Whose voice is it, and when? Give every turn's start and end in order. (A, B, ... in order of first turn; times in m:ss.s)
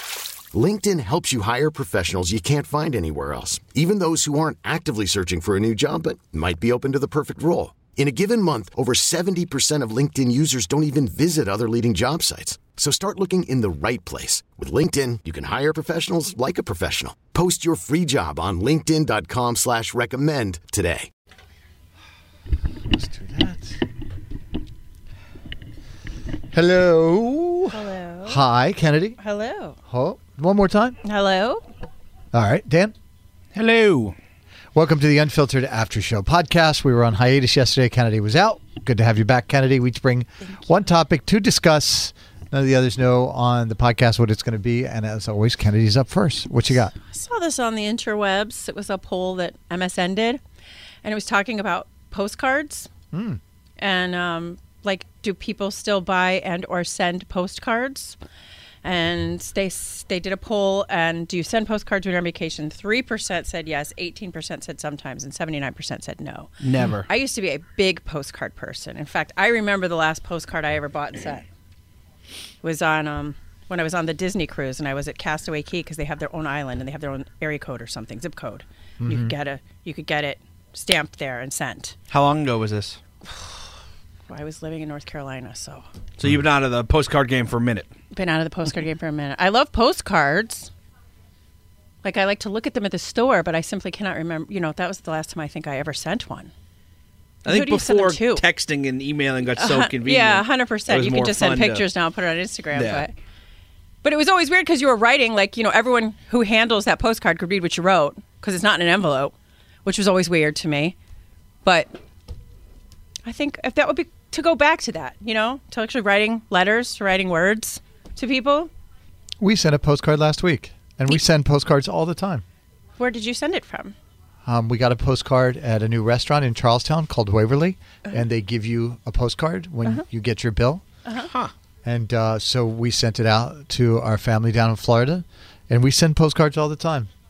0:00.5-0:21.1 A
0:22.9-0:23.8 B
0:26.5-0:29.2 B
0:27.7-0:28.4 C
0:29.2-0:29.8 C
0:29.9-0:31.0 B
0:31.0-0:31.6 C
0:32.3-0:33.0 B
0:33.5-0:34.2 D
0:34.7-0:46.9 B
0:46.9-0:50.4 C
0:51.0-0:52.9 C
0:53.1-0:53.4 B
0:53.8-0:58.2 C
0:58.8-1:06.5 C
1:06.6-1:07.1 D
1:07.1-1:11.4 C
1:12.6-1:22.0 C
1:19.0-1:19.3 B
1:22.1-1:23.0 D
1:23.3-1:23.6 C
1:24.3-1:25.8 C
1:26.2-1:27.9 D
1:28.1-1:30.7 C
1:32.0-1:36.5 C
1:37.4-1:41.9 D
1:37.4-1:38.4 C
1:39.6-1:43.1 C
1:42.7-1:43.1 D
1:44.0-1:51.0 C
1:51.6-1:52.0 C
1:53.2-1:58.7 C
1:59.4-2:02.4 B
2:03.0-2:04.0 C
2:04.4-2:10.8 B
2:11.0-2:11.3 C
2:11.8-2:17.1 B